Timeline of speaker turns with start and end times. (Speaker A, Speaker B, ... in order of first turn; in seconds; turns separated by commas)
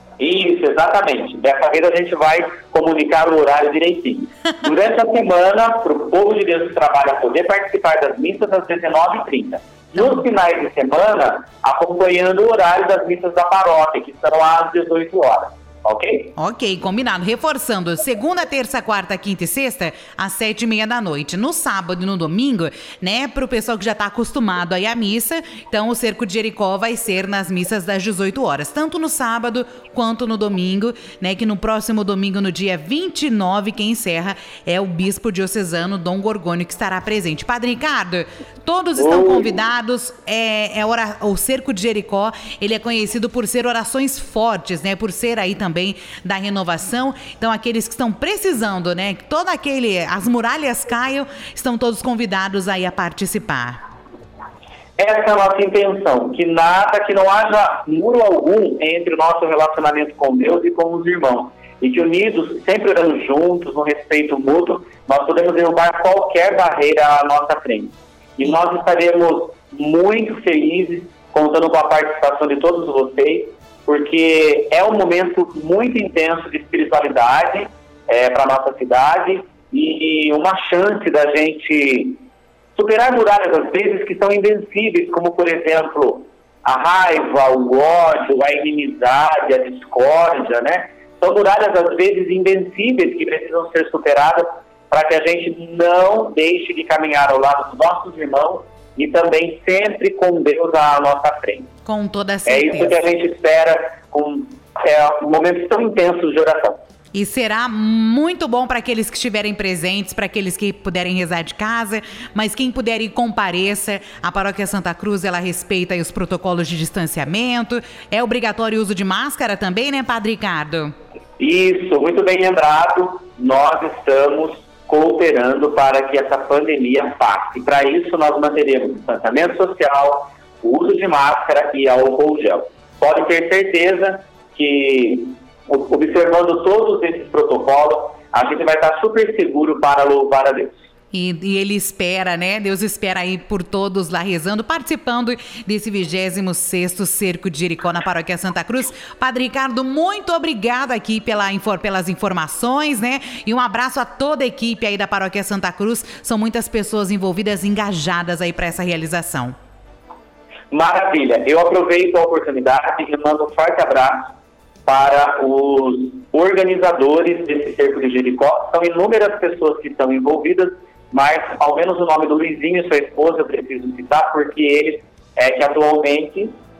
Speaker A: 0.2-16.3, Speaker B: 16.4-53.8, Speaker A: 39.0-39.6, Speaker A: 55.0-82.2, Speaker A: 82.7-101.7, Speaker B: 101.8-103.0, Speaker A: 102.5-106.8, Speaker B: 107.1-120.9, Speaker A: 121.4-140.8, Speaker B: 141.1-159.5, Speaker A: 160.7-164.3, Speaker A: 164.8-176.6